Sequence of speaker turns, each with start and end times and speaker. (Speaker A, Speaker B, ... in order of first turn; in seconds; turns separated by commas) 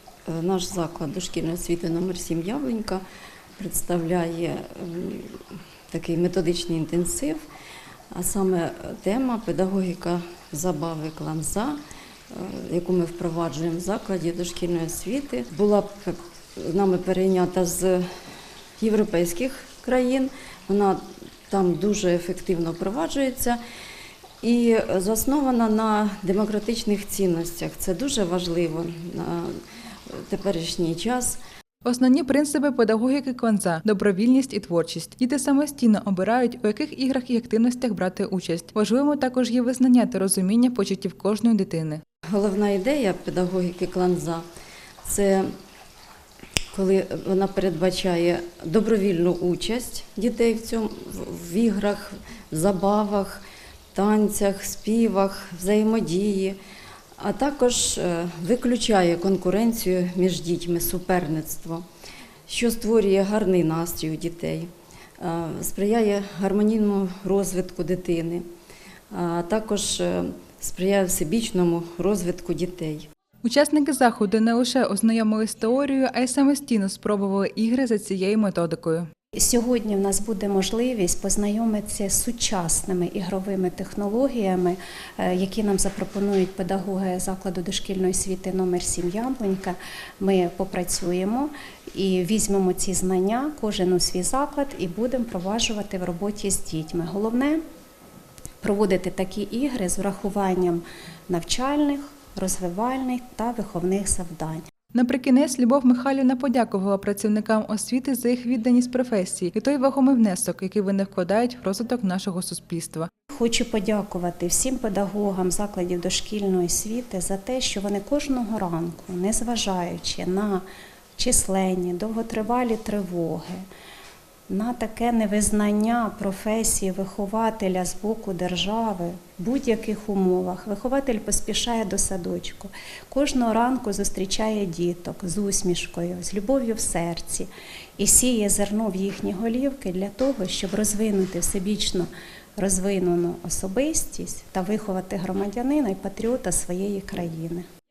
Speaker A: 0.3-3.0, Speaker A: 3.6-7.4, Speaker A: 8.1-11.8, Speaker A: 12.3-18.1, Speaker A: 18.8-23.6, Speaker A: 24.4-31.4, Speaker B: 31.8-42.0, Speaker A: 42.3-44.4, Speaker A: 45.0-45.5, Speaker A: 46.7-53.4, Speaker A: 53.9-56.6, Speaker A: 57.2-61.8, Speaker A: 62.5-68.4, Speaker A: 69.1-73.1, Speaker B: 73.4-79.1, Speaker C: 79.3-97.6, Speaker C: 98.6-104.6, Speaker B: 104.9-113.1, Speaker C: 113.3-120.6, Speaker C: 121.2-123.6, Speaker C: 124.5-147.6